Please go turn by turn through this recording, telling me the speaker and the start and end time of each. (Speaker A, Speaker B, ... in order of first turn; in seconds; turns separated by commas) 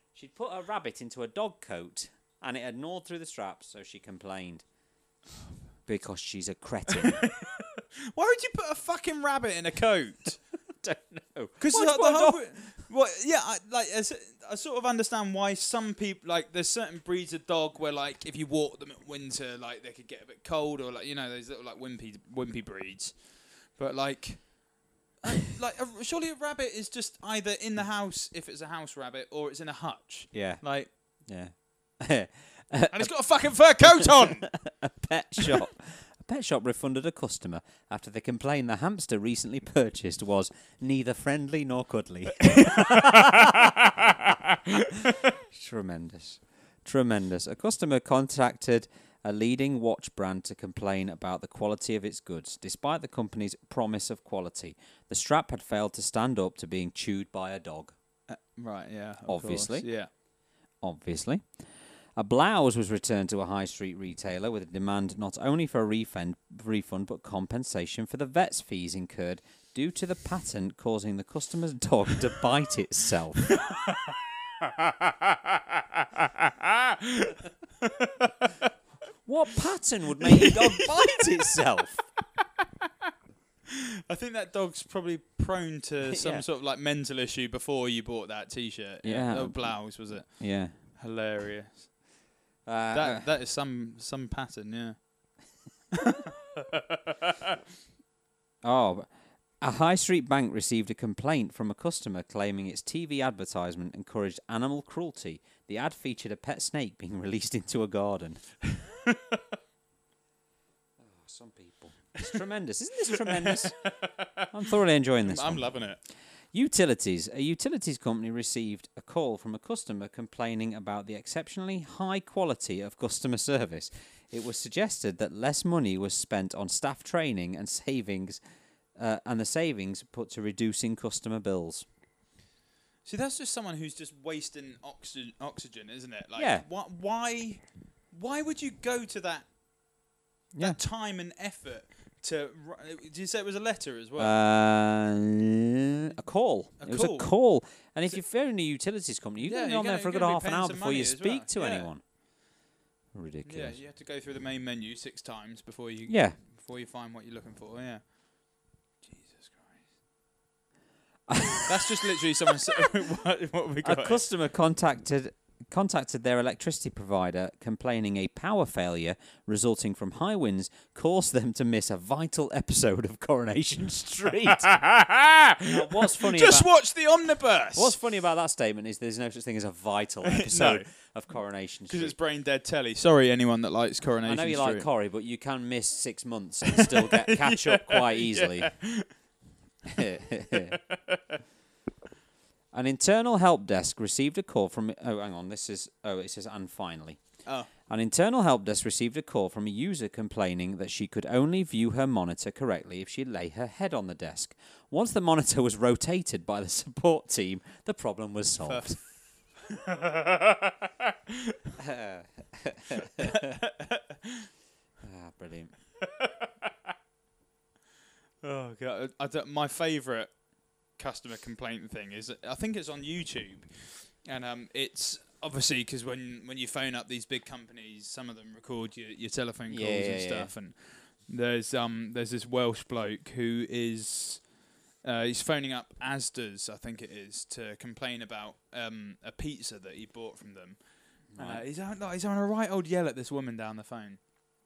Speaker A: 0.1-4.6, Speaker A: 5.8-7.2, Speaker B: 6.9-10.4, Speaker A: 10.8-12.5, Speaker B: 11.6-30.9, Speaker A: 30.3-44.3, Speaker B: 32.9-34.6, Speaker A: 45.3-57.9, Speaker B: 58.3-60.1, Speaker A: 59.3-59.9, Speaker A: 60.8-61.5, Speaker A: 62.1-73.6, Speaker B: 73.6-75.6, Speaker B: 76.2-78.7, Speaker A: 79.2-82.0, Speaker B: 80.2-81.5, Speaker B: 83.7-92.2, Speaker A: 86.1-86.4, Speaker A: 89.0-90.7, Speaker A: 92.7-93.3, Speaker B: 92.9-95.4, Speaker B: 96.0-97.5, Speaker A: 98.6-108.4, Speaker B: 108.9-109.4, Speaker A: 111.0-113.9, Speaker B: 113.2-114.6, Speaker A: 114.5-115.8, Speaker B: 115.2-116.0, Speaker A: 116.5-128.4, Speaker A: 129.0-131.9, Speaker B: 133.0-139.5, Speaker A: 136.3-136.6, Speaker B: 140.6-144.3, Speaker A: 144.2-152.0, Speaker B: 146.8-147.3, Speaker B: 149.4-151.9, Speaker A: 153.1-153.8, Speaker B: 153.4-159.8, Speaker A: 156.1-156.4, Speaker A: 161.3-161.9, Speaker B: 161.7-164.2, Speaker A: 163.8-174.8, Speaker B: 174.5-177.9, Speaker A: 175.7-176.7, Speaker A: 177.7-182.2, Speaker B: 180.2-180.9, Speaker B: 181.9-184.9, Speaker A: 184.2-188.7, Speaker B: 186.7-189.1, Speaker A: 189.9-190.8, Speaker B: 190.6-191.4, Speaker A: 192.7-197.3, Speaker B: 197.4-197.7, Speaker A: 197.9-209.0, Speaker B: 208.6-210.9, Speaker A: 211.8-213.6, Speaker B: 213.2-214.4, Speaker A: 215.0-215.8, Speaker B: 216.0-216.5, Speaker B: 218.4-234.5, Speaker A: 229.7-230.5, Speaker B: 235.0-240.8, Speaker B: 241.3-244.2, Speaker A: 241.3-241.6